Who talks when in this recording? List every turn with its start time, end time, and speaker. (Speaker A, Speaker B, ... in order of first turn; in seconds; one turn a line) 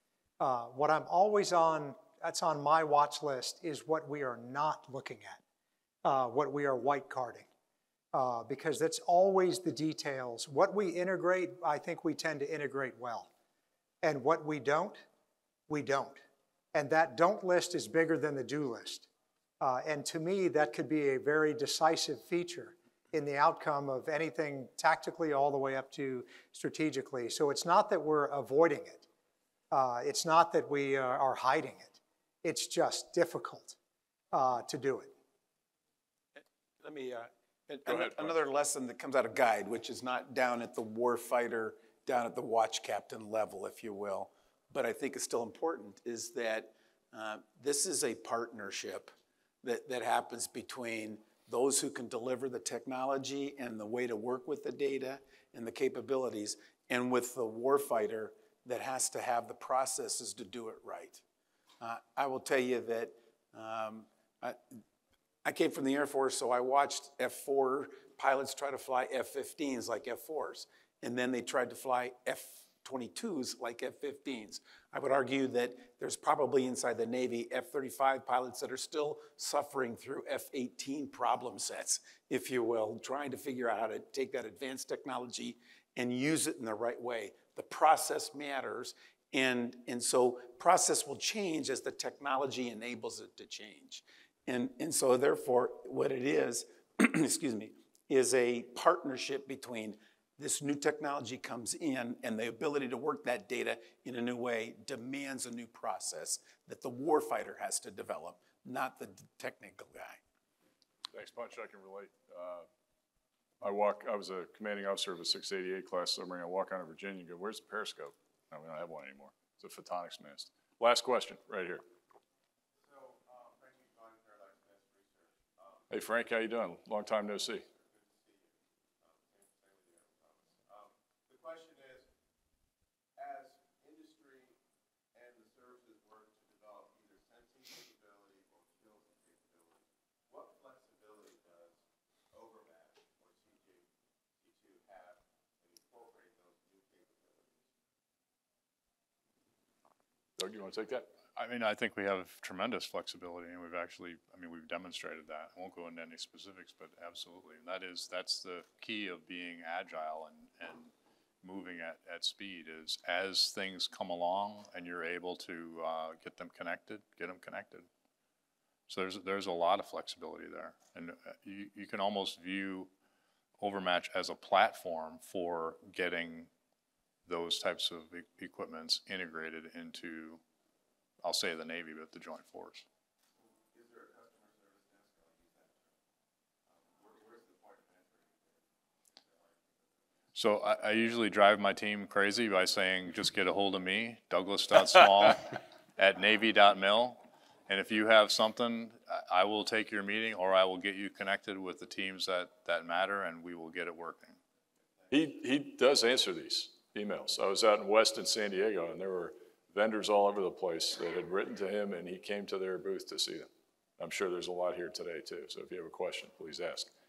Speaker A: 0.4-5.4
Speaker A: 6.0-7.5
Speaker A: 8.1-13.3
Speaker A: 14.0-15.0
Speaker A: 15.7-16.2
Speaker A: 16.7-19.1
Speaker A: 19.6-29.0
Speaker A: 29.7-33.8
Speaker A: 34.3-35.1
Speaker B: 36.4-49.1
Speaker C: 37.9-38.3
Speaker B: 49.6-61.2
Speaker B: 61.8-64.6
Speaker B: 65.4-110.2
Speaker C: 111.1-112.7
Speaker C: 113.6-121.8
Speaker D: 122.8-126.0
Speaker C: 125.9-127.6
Speaker D: 127.5-132.1
Speaker D: 133.2-134.6
Speaker D: 135.1-147.7
Speaker C: 150.4-151.1
Speaker E: 151.3-167.9
Speaker E: 168.9-172.9
Speaker E: 173.6-176.5
Speaker E: 177.2-180.4
Speaker E: 181.2-182.8
Speaker D: 183.3-185.9
Speaker D: 186.7-190.2
Speaker E: 190.3-204.4
Speaker C: 205.1-216.9